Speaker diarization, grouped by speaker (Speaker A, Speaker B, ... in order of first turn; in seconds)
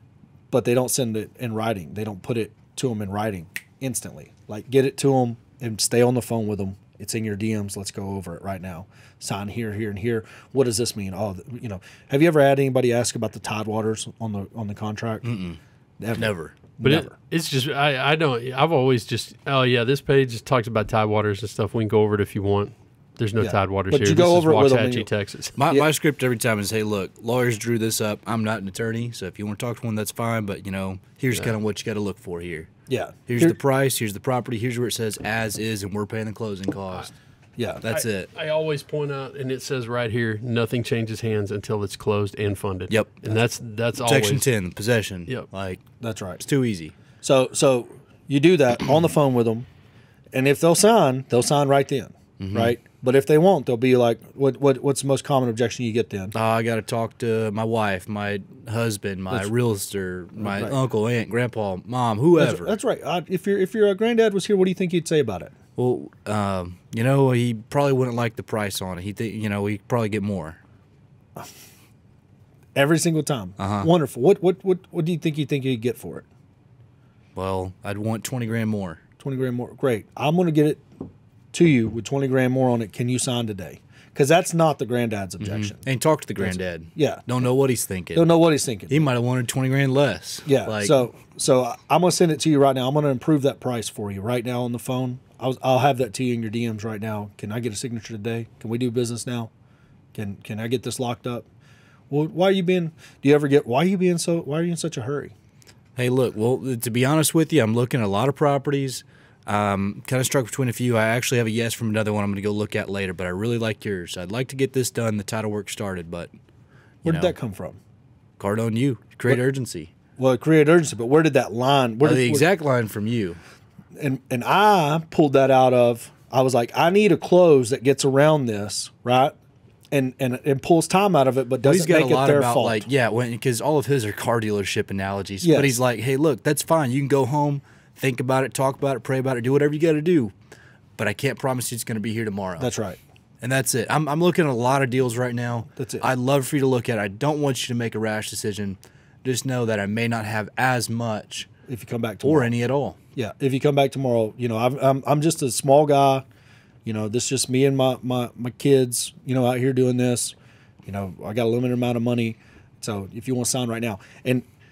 Speaker A: 0.5-15.2, 16.0-17.1, 23.4-25.1, 32.9-33.6, 37.6-37.8, 46.0-46.4, 47.2-49.7, 50.3-56.3, 60.4-60.8, 62.4-65.5, 72.8-76.3, 79.2-80.8, 81.5-85.8, 86.4-87.5, 88.1-89.1, 90.5-99.5, 100.1-101.5, 102.1-105.3, 117.0-117.8, 120.2-122.5, 124.0-129.4, 129.9-132.9, 135.4-135.8, 142.6-143.0, 145.8-146.1, 151.7-152.5, 153.2-156.2, 156.8-164.5
Speaker B: 15.2-15.6, 16.1-16.6, 25.6-32.7, 33.3-37.1, 37.8-38.3, 42.9-43.2, 44.0-45.8, 46.4-46.9, 52.4-52.8, 56.3-62.7, 65.8-70.6, 73.6-73.9, 77.4-79.0, 85.4-88.3, 88.9-91.0, 106.0-116.3, 117.0-117.3, 118.4-119.9, 122.0-123.4, 131.6-140.3, 141.0-142.7, 143.4-151.5, 152.2-153.0
Speaker C: 16.8-25.6, 37.9-44.5